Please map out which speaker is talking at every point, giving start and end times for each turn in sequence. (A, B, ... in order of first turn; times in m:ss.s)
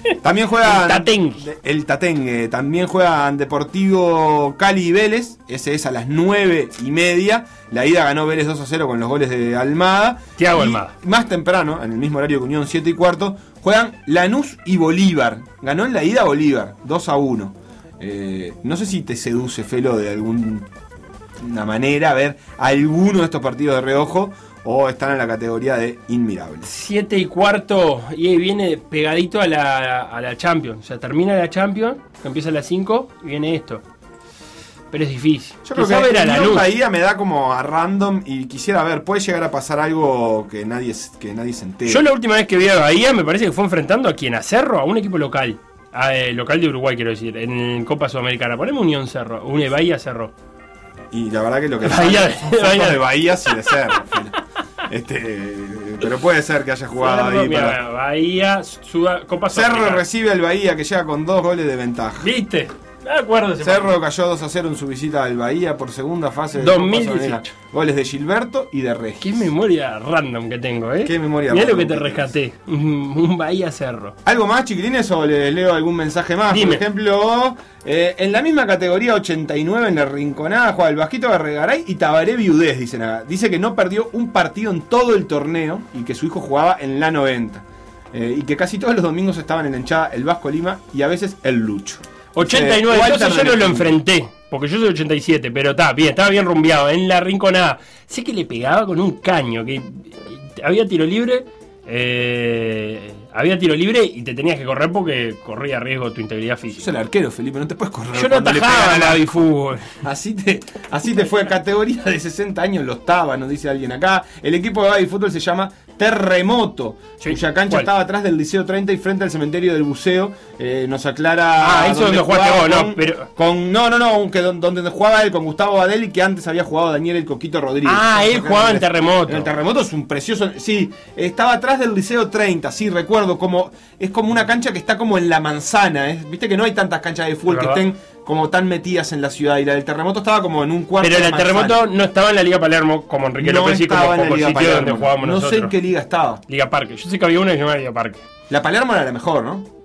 0:00.2-0:20.7 A
0:00.6-0:01.4 B
0:10.4-0:10.9 B
0:21.4-0:26.7 A
0:26.6-0:33.8 B
0:34.9-0:36.7 B
0:35.6-0:42.0 A
0:41.8-0:50.3 B
0:51.1-0:54.4 A
0:51.9-0:53.7 B
0:54.9-0:57.8 A
0:57.0-1:00.0 B
0:59.5-1:02.3 A
1:02.2-1:04.0 B
1:03.6-1:09.5 A
1:06.6-1:07.5 B
1:09.2-1:14.2 B
1:11.0-1:12.3 A
1:14.2-1:33.9 A
1:16.5-1:16.8 B
1:32.3-1:46.9 B
1:46.7-1:49.5 A
1:48.1-1:50.0 B
1:50.0-2:21.8 A
1:57.2-1:57.9 B
2:01.6-2:03.3 B
2:07.8-2:09.5 B
2:17.5-2:17.8 B
2:21.0-2:25.7 B
2:23.4-2:26.4 A
2:26.5-2:28.2 B
2:28.5-2:29.7 A